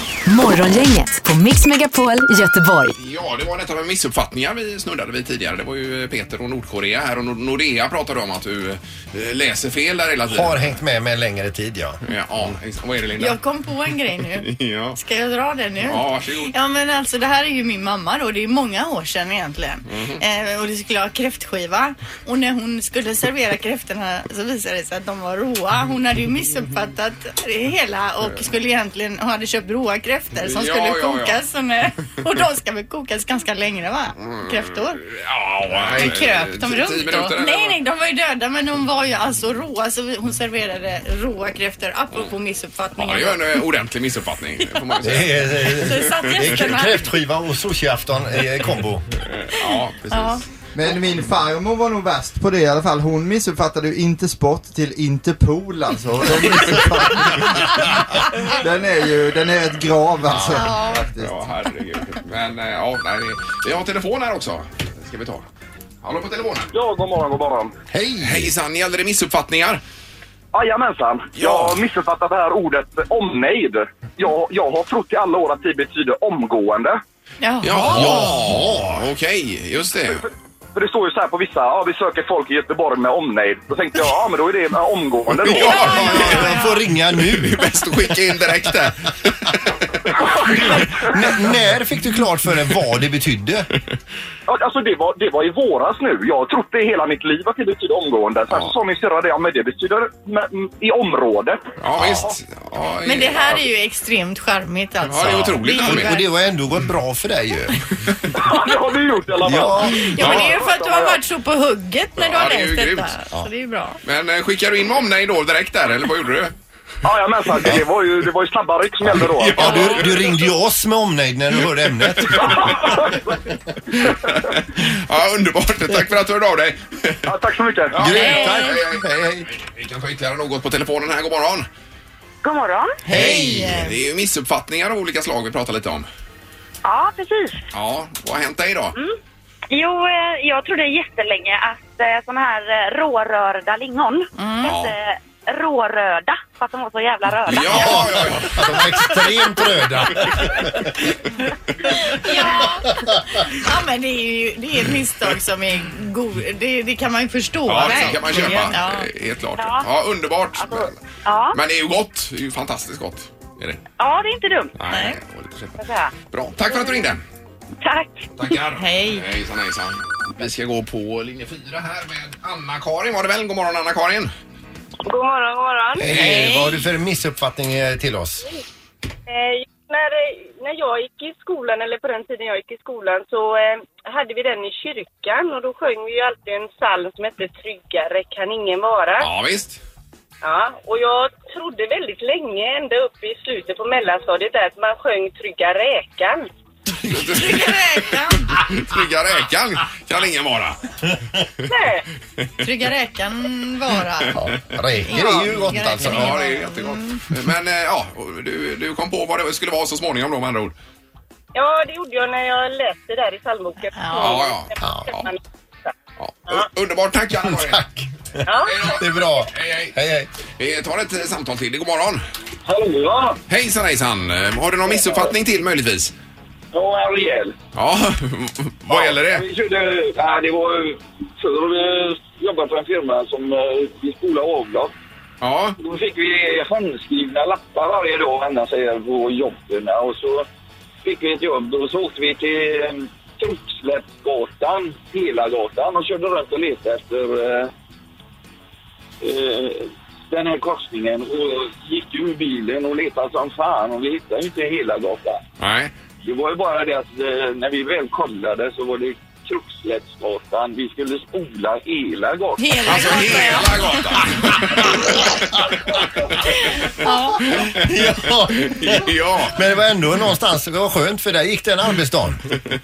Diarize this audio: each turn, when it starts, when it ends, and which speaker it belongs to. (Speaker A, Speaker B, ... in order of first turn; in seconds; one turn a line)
Speaker A: 0.3-3.0
Speaker B: 3.0-10.8
Speaker C: 10.3-12.0
Speaker B: 12.0-13.4
Speaker D: 13.2-35.0
Speaker B: 14.3-15.0
Speaker B: 15.8-16.5
Speaker B: 19.9-20.2
Speaker B: 30.4-31.4
Speaker B: 34.2-37.8
Speaker D: 35.8-43.6
Speaker B: 43.0-46.6
Speaker C: 45.0-49.0
Speaker D: 45.6-47.0
Speaker B: 49.3-50.4
Speaker D: 49.6-50.4
Speaker E: 50.7-61.3
Speaker C: 60.3-60.7
Speaker D: 60.5-61.0
Speaker B: 61.2-65.5
Speaker B: 66.0-66.7
Speaker F: 66.7-67.7
Speaker C: 67.9-68.5
Speaker B: 68.2-69.8
Speaker F: 70.5-77.0
Speaker B: 71.3-71.8
Speaker D: 77.4-78.4
Speaker B: 77.6-80.2
Speaker C: 77.8-79.0
Speaker F: 80.8-86.1
Speaker B: 85.3-86.6
Speaker C: 85.5-87.8
Speaker D: 85.6-86.8
Speaker B: 87.2-89.5
Speaker B: 90.1-90.8
Speaker C: 90.6-93.7
Speaker F: 94.5-101.7
Speaker B: 101.8-103.6
Speaker D: 103.0-106.3
Speaker B: 105.0-106.1
Speaker C: 105.8-107.8
Speaker F: 108.3-111.2
Speaker C: 109.4-110.1
Speaker D: 109.8-114.0
Speaker B: 110.2-110.5
Speaker B: 112.2-113.1
Speaker B: 114.0-116.5
Speaker F: 117.0-119.9
Speaker B: 119.4-120.3
Speaker C: 119.4-122.9
Speaker B: 122.2-123.0
Speaker F: 122.5-123.1
Speaker B: 124.0-127.3
Speaker F: 127.3-128.1
Speaker B: 127.9-131.7
Speaker C: 128.0-129.5
Speaker D: 128.3-128.6
Speaker G: 132.4-133.0
Speaker D: 133.1-133.9
Speaker C: 133.1-133.8
Speaker B: 133.1-136.1
Speaker G: 136.8-137.6
Speaker B: 137.7-138.9
Speaker G: 139.7-148.1
Speaker D: 144.4-144.7
Speaker B: 144.6-144.9
Speaker B: 147.5-148.9
Speaker C: 147.7-150.9
Speaker D: 151.9-159.1
Speaker C: 152.7-153.2
Speaker B: 157.7-163.8
Speaker G: 159.6-159.9
Speaker G: 160.6-161.6
Speaker G: 164.0-164.7
Speaker B: 164.8-167.2
Speaker D: 164.9-165.2
Speaker G: 165.8-166.2
Speaker G: 166.7-167.1
Speaker G: 167.8-168.3
Speaker B: 168.4-174.3
Speaker D: 168.7-169.3
Speaker H: 175.1-176.1
Speaker C: 176.0-178.5
Speaker B: 176.1-176.6
Speaker D: 176.2-176.8
Speaker H: 179.3-189.3
Speaker B: 189.2-189.8
Speaker H: 190.4-196.5
Speaker B: 197.1-200.9
Speaker D: 197.2-198.5
Speaker H: 201.7-202.1
Speaker D: 202.6-204.4
Speaker C: 204.3-206.4
Speaker D: 205.0-207.2
Speaker B: 205.9-210.7
Speaker H: 211.6-215.9
Speaker D: 213.9-214.4
Speaker B: 214.2-215.3
Speaker C: 214.8-215.1
Speaker B: 216.2-217.9
Speaker C: 217.4-218.1
Speaker H: 218.5-218.8
Speaker B: 218.6-219.9
Speaker C: 218.8-220.3
Speaker B: 220.6-222.2
Speaker I: 222.7-223.4
Speaker B: 223.5-226.1
Speaker I: 224.9-225.3
Speaker I: 226.7-227.6
Speaker B: 227.8-229.4
Speaker I: 228.9-234.9
Speaker B: 235.4-235.8
Speaker I: 235.8-240.5
Speaker I: 241.0-247.7
Speaker I: 249.2-255.4
Speaker B: 255.6-255.9
Speaker I: 256.2-263.5
Speaker D: 262.6-263.9
Speaker B: 262.9-265.4
Speaker D: 266.5-267.7
Speaker C: 267.6-272.4
Speaker B: 268.2-269.6